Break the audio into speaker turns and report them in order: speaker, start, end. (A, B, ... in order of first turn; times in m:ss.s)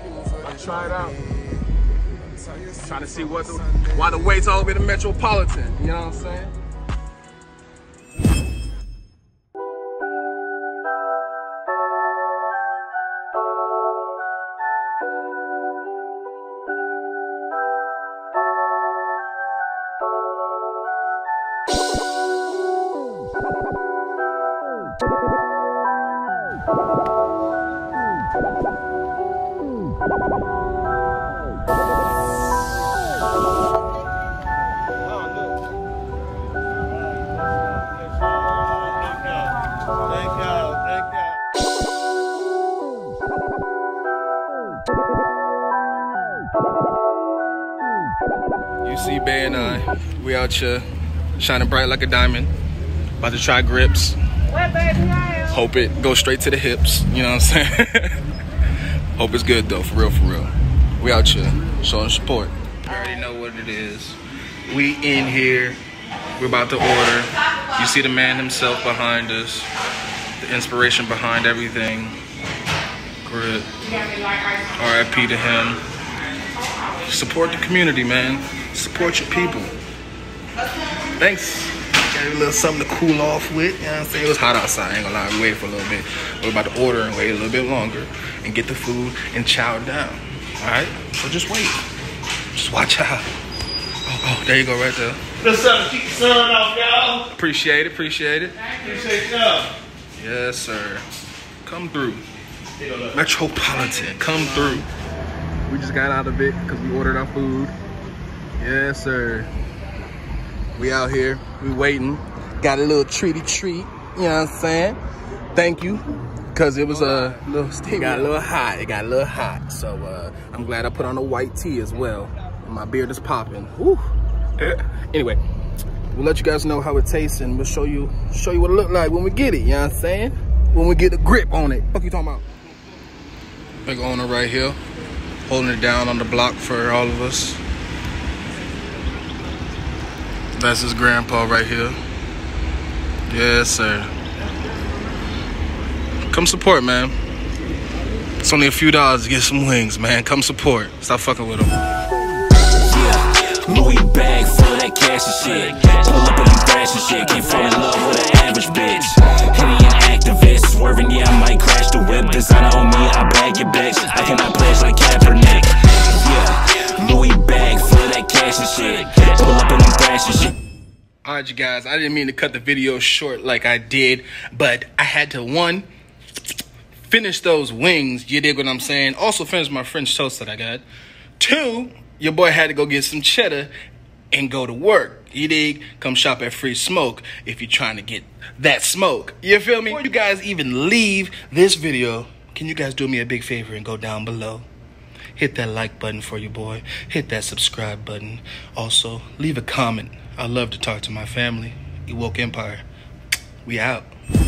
0:00.3-0:01.3 A
0:02.6-0:06.5 A
0:40.4-0:41.0 B
0:48.8-0:50.9 A
0:51.4-0:52.5 A
0:53.2-0:54.2 A
0:55.2-0:58.2 A
0:59.2-1:05.8 A
1:06.4-1:09.7 A
1:10.4-1:12.2 A
1:13.2-1:14.1 A
1:14.7-1:15.8 A
1:16.9-1:19.8 A
1:21.0-1:31.8 A
1:32.5-1:33.3 A
1:34.1-1:35.2 A
1:35.5-1:37.1 B
1:37.1-1:39.6 A
1:39.1-1:39.6 B
1:40.2-1:41.0 A
1:41.6-1:42.2 A
1:43.1-1:44.9 A
1:45.7-1:47.8 A
1:48.6-1:49.5 A
1:50.8-1:55.0 A
1:55.5-2:05.4 A
2:06.1-2:12.4 A
2:13.8-2:14.8 A
2:15.5-2:17.6 A
2:20.5-2:22.0 A
2:23.3-2:24.1 A
2:26.3-2:27.2 A
2:28.4-2:31.8 A
2:32.8-2:50.6 C
2:51.2-2:55.9 A
2:57.0-3:00.9 A
3:01.4-3:03.7 A
3:04.3-3:14.7 A
3:15.3-3:22.8 A
3:23.6-3:24.1 A